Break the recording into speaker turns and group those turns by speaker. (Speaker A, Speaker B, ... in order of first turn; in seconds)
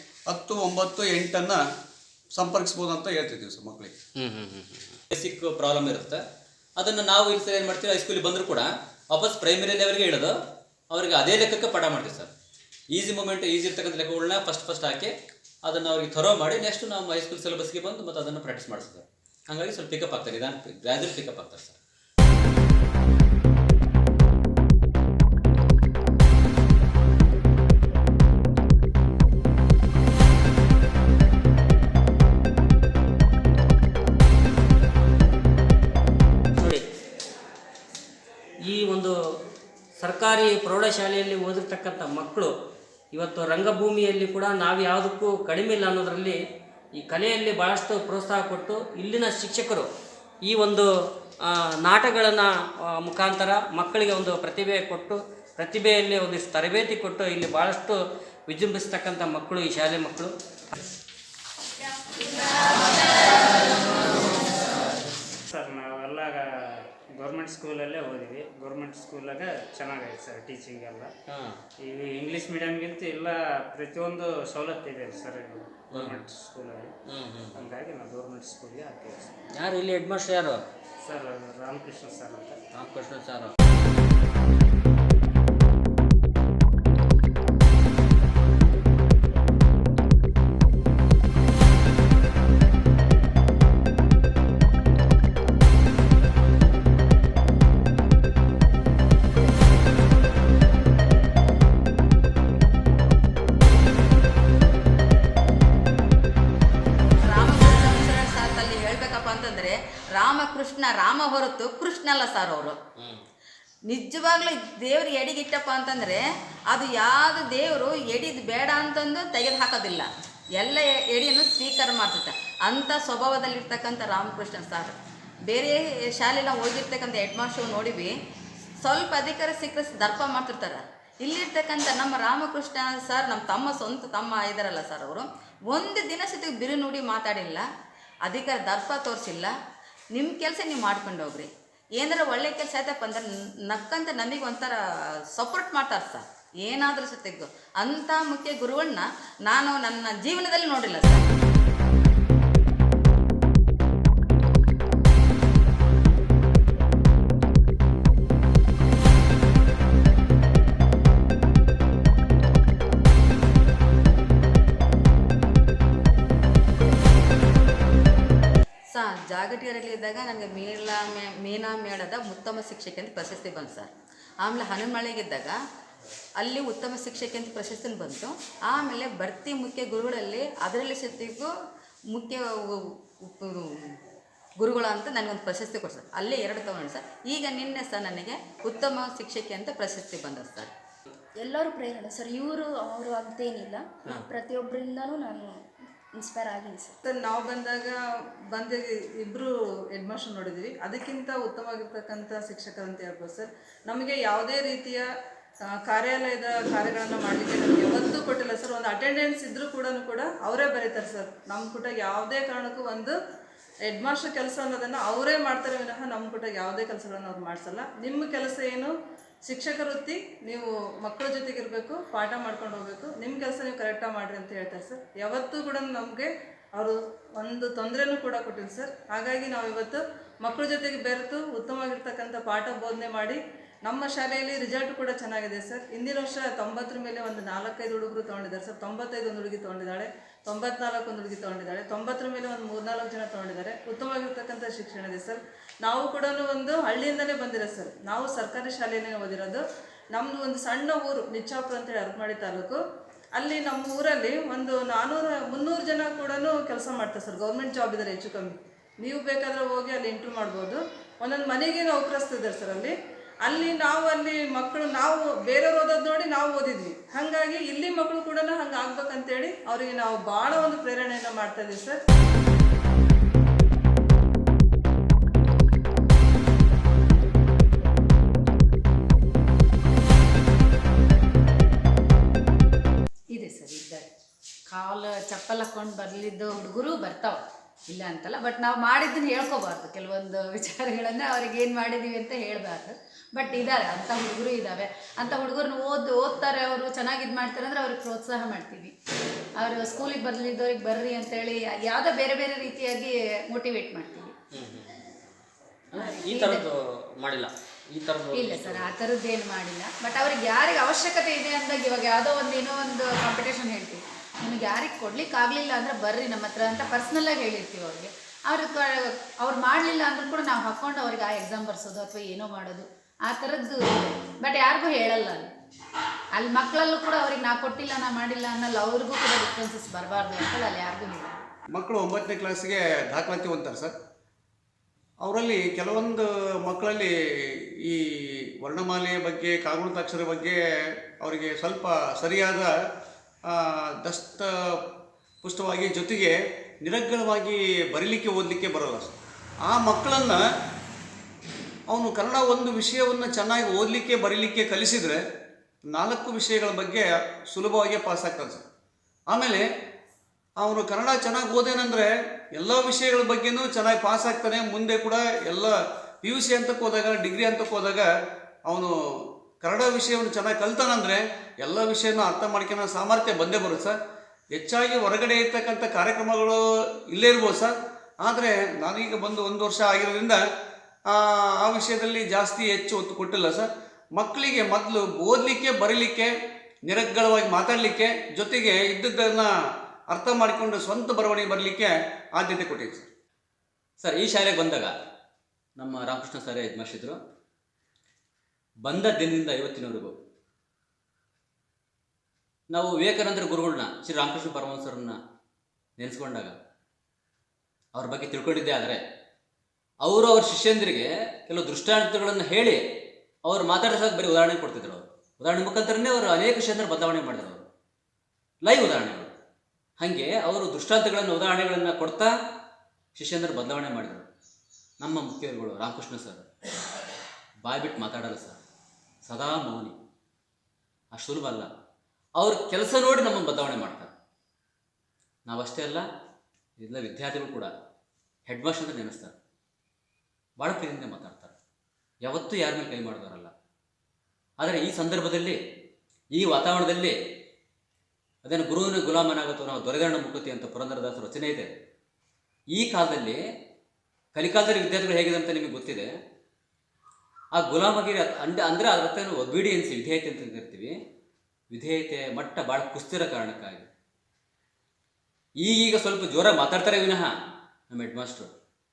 Speaker A: 0.3-1.6, 2.4-3.9, 331.7-333.9, 335.2-337.1, 338.6-340.6, 341.2-342.7, 343.5-344.5, 345.4-349.1, 349.7-350.4, 351.9-355.2, 355.9-358.6, 359.3-359.6, 360.6-368.1, 369.6-373.9, 374.5-376.6, 377.1-377.7, 378.2-380.4, 381.1-386.3, 386.9-389.5, 390.1-393.1
Speaker B: 4.2-5.0, 36.6-36.8, 38.6-39.1, 40.0-42.5, 43.1-46.4, 46.9-49.9, 50.4-50.9, 51.4-60.3, 71.3-71.6, 75.9-76.2, 77.1-77.6, 79.5-80.6, 82.7-83.5, 304.5-304.9, 305.9-308.9
Speaker C: 5.1-6.2, 6.8-10.3, 10.9-12.3, 12.9-15.1, 15.6-21.8, 394.0-394.9, 395.8-397.2, 398.9-400.1, 402.7-405.1, 406.0-406.5, 407.9-409.0, 410.0-412.8, 413.4-417.6, 418.6-419.3, 420.0-422.3, 423.1-424.2, 425.0-426.4, 427.6-428.6, 429.2-429.9, 431.1-431.7, 432.4-434.1, 435.5-436.0, 436.8-437.7, 438.5-439.4, 440.6-441.5, 442.2-443.5, 444.6-445.6, 446.3-447.1, 448.4-451.7, 452.7-453.4, 454.3-456.1, 457.6-460.9, 461.7-463.9, 465.6-467.3, 467.9-468.5
Speaker D: 65.5-66.4, 67.2-71.1, 71.8-76.9, 77.5-79.3, 81.0-82.6
Speaker E: 107.2-112.8, 113.9-125.0, 125.5-128.1, 128.8-137.7, 138.2-139.5, 140.1-144.8, 145.3-151.2, 168.9-175.6, 176.4-181.5, 182.1-184.0, 184.6-190.7
Speaker F: 191.4-195.5, 196.2-196.9
Speaker G: 197.0-198.0, 198.5-205.1, 205.7-213.2, 213.8-218.9, 219.4-252.8, 253.3-272.0
Speaker H: 283.3-284.1, 284.7-298.9, 299.6-304.3, 305.9-306.6, 308.3-325.5, 326.4-331.4